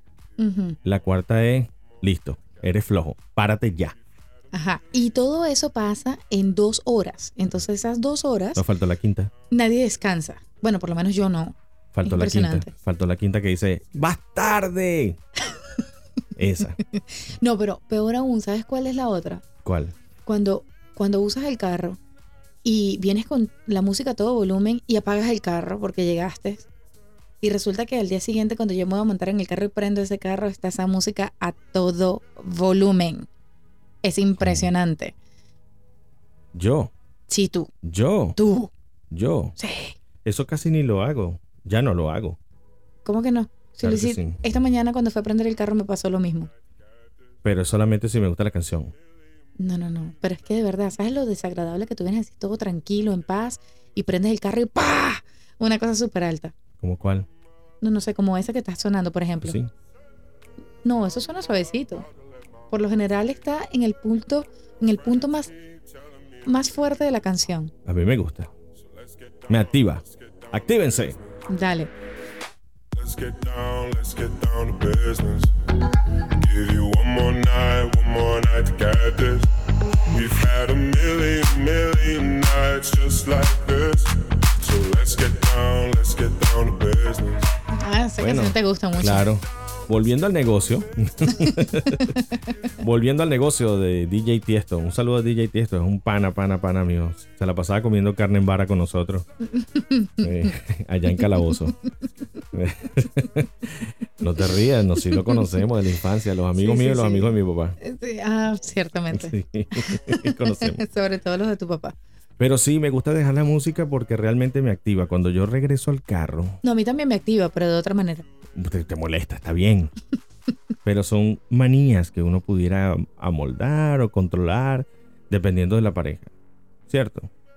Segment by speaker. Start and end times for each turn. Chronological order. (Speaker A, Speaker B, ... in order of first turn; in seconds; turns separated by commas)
Speaker A: 0.4-0.8, Speaker B: 0.8-4.0, Speaker A: 4.5-8.6, Speaker B: 8.6-9.3, Speaker A: 9.5-12.7, Speaker B: 11.9-15.2, Speaker B: 16.4-16.8, Speaker A: 16.9-19.4, Speaker B: 19.6-19.9, Speaker A: 20.2-22.0, Speaker A: 22.6-26.7, Speaker A: 27.4-33.3, Speaker A: 34.0-35.1, Speaker B: 34.4-34.7, Speaker B: 36.5-36.9, Speaker A: 37.3-37.7, Speaker B: 37.8-38.4, Speaker A: 38.4-38.7, Speaker B: 39.1-39.6, Speaker A: 39.6-40.0, Speaker B: 40.2-42.4, Speaker A: 43.0-46.5, Speaker B: 43.8-44.4, Speaker B: 47.4-48.9, Speaker A: 49.6-56.5, Speaker B: 56.8-57.3, Speaker A: 57.8-59.6, Speaker B: 59.4-59.7, Speaker A: 60.8-62.1, Speaker A: 62.7-65.5, Speaker A: 66.5-67.7, Speaker B: 67.9-68.5, Speaker B: 69.5-71.2, Speaker A: 71.5-71.9, Speaker C: 73.0-75.7, Speaker C: 76.3-87.5, Speaker A: 87.7-89.3, Speaker B: 88.2-92.2, Speaker B: 92.8-99.2, Speaker A: 99.5-100.3, Speaker B: 100.2-101.8, Speaker A: 101.2-101.5, Speaker B: 102.5-107.8, Speaker A: 105.1-105.5, Speaker A: 106.6-112.0, Speaker B: 109.1-110.8, Speaker B: 112.4-116.6, Speaker A: 116.6-118.2, Speaker B: 118.6-119.9, Speaker B: 120.8-126.3, Speaker B: 126.9-127.3